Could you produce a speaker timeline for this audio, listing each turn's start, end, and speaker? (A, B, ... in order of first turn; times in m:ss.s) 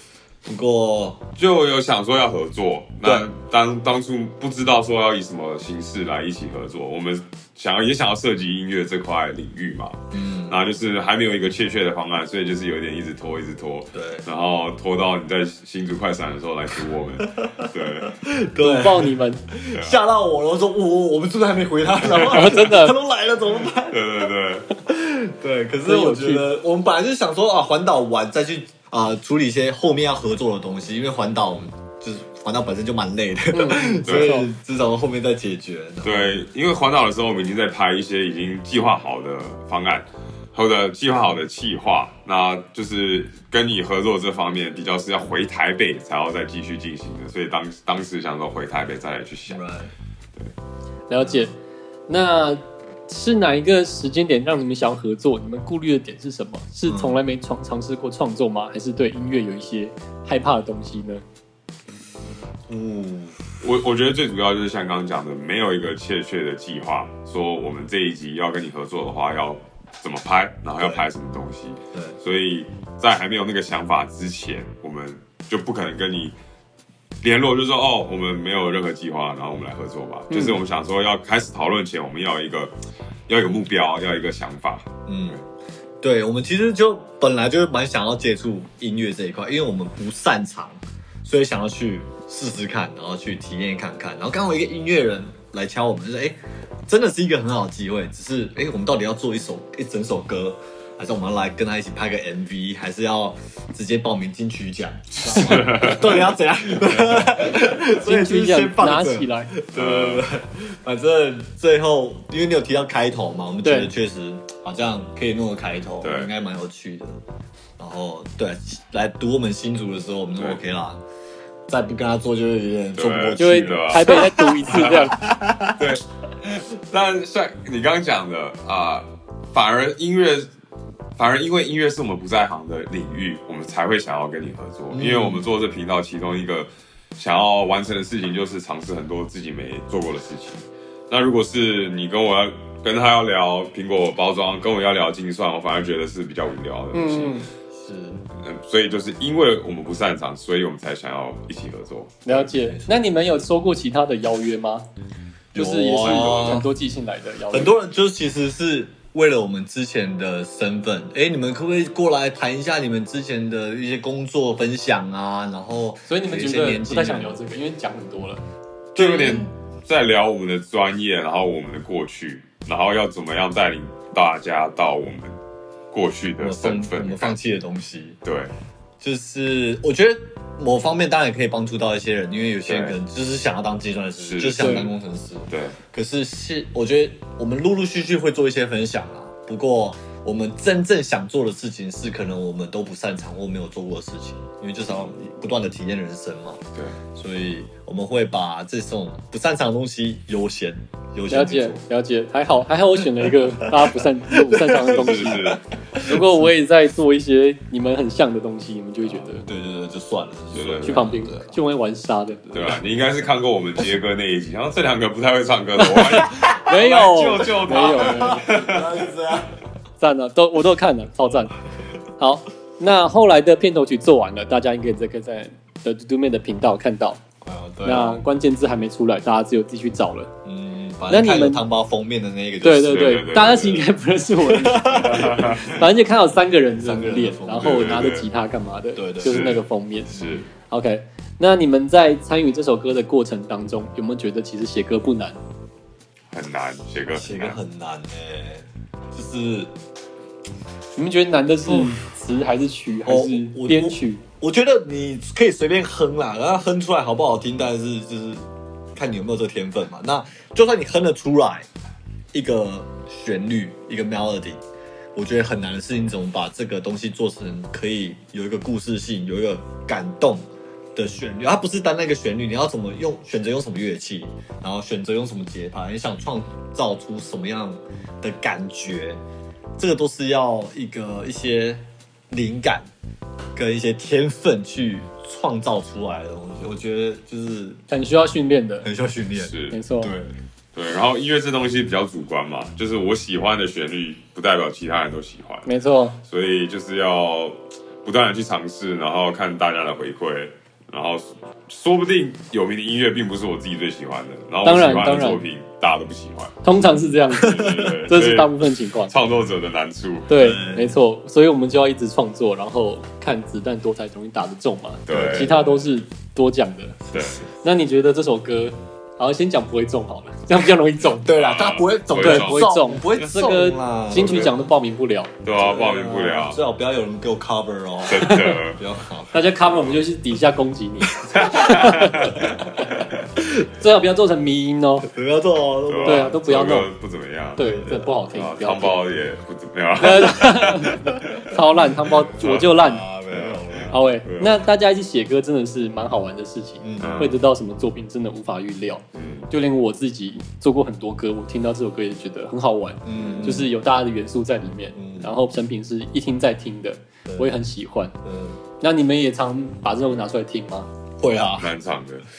0:00.4-0:01.2 A
0:01.4-0:18.2 B
0:10.1-0:10.6 A
0:13.9-0:14.2 A
0:17.3-0:24.0 A
0:18.6-0:19.4 C
0:19.7-0:20.0 B
0:22.1-0:22.9 C
0:23.9-0:24.6 B
0:24.8-0:36.4 A
0:25.8-0:26.4 C
0:33.5-0:34.5 C
0:34.0-0:34.4 B
0:36.0-0:49.6 B
0:49.5-0:49.9 A
0:51.1-0:51.5 C
0:51.2-0:51.5 A
0:52.1-1:01.2 C
0:56.8-0:57.2 A
1:02.7-1:03.4 A
1:03.6-1:16.3 B
1:10.8-1:11.0 A
1:17.2-1:22.7 B
1:20.3-1:20.6 C
1:23.3-1:25.4 B
1:25.1-1:25.4 A
1:26.0-1:57.2 A
1:45.2-1:46.3 B
1:47.8-1:49.5 C
1:49.7-1:50.2 B
1:53.6-1:53.9 C
1:56.0-1:56.3 B
1:57.8-2:01.0 A
2:01.7-2:05.9 A
2:03.0-2:05.0 B
2:03.4-2:05.2 C
2:05.8-2:10.5 B
2:11.2-2:27.3 B
2:14.9-2:15.5 A
2:26.9-2:27.5 C
2:27.7-2:28.2 A
2:28.4-2:32.2 B
2:32.2-2:34.9 C
2:32.3-2:33.0 A
2:35.5-2:36.7 A
2:35.5-2:37.8 C
2:37.5-2:47.4 A
2:46.1-2:48.4 C
2:48.9-2:55.4 B
2:49.0-2:49.5 A
2:55.9-2:57.3 B
2:56.4-2:58.2 A
2:58.2-2:58.5 B
2:59.0-3:21.8 A
3:02.7-3:03.0 B
3:04.2-3:04.9 B
3:05.5-3:05.8 B
3:21.3-3:29.5 C
3:23.6-3:26.5 A
3:24.7-3:25.6 B
3:29.3-3:31.6 A
3:30.5-3:31.1 B
3:30.8-3:32.4 C
3:32.5-3:32.8 A
3:32.5-3:38.9 B
3:35.8-3:38.5 C
3:36.2-3:39.6 A
3:40.0-3:41.5 C
3:42.2-3:47.2 C
3:47.4-3:48.2 A
3:47.8-3:50.3 C
3:50.4-3:53.2 A
3:51.1-3:51.6 C
3:52.6-4:00.1 C
3:52.8-3:53.9 B
3:54.4-3:55.8 A
3:55.0-3:55.7 B
3:56.8-3:58.2 A
3:57.6-3:58.2 B
3:59.0-3:59.5 A
3:59.2-4:00.5 B
4:00.7-4:05.4 C
4:06.3-4:07.6 B
4:07.1-4:09.7 A
4:11.0-4:14.2 C
4:11.7-4:11.9 A
4:13.0-4:21.6 A
4:22.3-4:24.6 A
4:25.1-4:39.2 A
4:39.8-4:42.9 A
4:43.5-4:47.8 A
4:47.9-4:48.9 C
4:48.8-4:50.3 A
4:49.3-4:49.8 B
4:49.7-4:50.1 C
4:50.7-4:55.7 B
4:55.6-4:56.2 C
4:56.2-5:06.6 B
5:04.6-5:05.4 C
5:06.6-5:09.1 C
5:06.8-5:08.0 A
5:07.3-5:10.3 B
5:10.3-5:17.0 C
5:10.4-5:11.0 A
5:15.1-5:15.5 B
5:15.1-5:15.9 A
5:17.0-5:17.5 A
5:17.1-5:17.4 B
5:17.6-5:21.3 C
5:21.2-5:24.7 A
5:21.3-5:23.3 B
5:22.2-5:25.3 C
5:24.2-5:24.5 B
5:25.4-5:26.6 B
5:25.6-5:29.5 A
5:28.0-5:28.8 B
5:28.2-5:28.6 C
5:29.3-5:32.4 C
5:29.6-5:29.9 B
5:31.1-5:33.7 A
5:31.3-5:33.2 B
5:33.7-5:35.1 C
5:35.0-5:36.5 A
5:35.9-5:37.6 B
5:36.0-5:36.9 C
5:37.6-5:39.0 C
5:37.6-5:38.2 A
5:38.3-5:41.5 B
5:40.0-5:43.0 C
5:42.0-5:44.0 A
5:42.4-5:42.8 B
5:43.3-5:44.6 B
5:43.9-5:58.1 C
5:46.8-5:47.3 A
5:47.0-5:47.4 B
5:49.1-5:49.5 B
5:53.0-5:53.7 A
5:55.0-5:55.3 A
5:57.2-5:57.5 A
5:58.2-5:58.6 A
5:58.8-6:00.9 C
6:01.2-6:01.7 A
6:01.6-6:02.2 B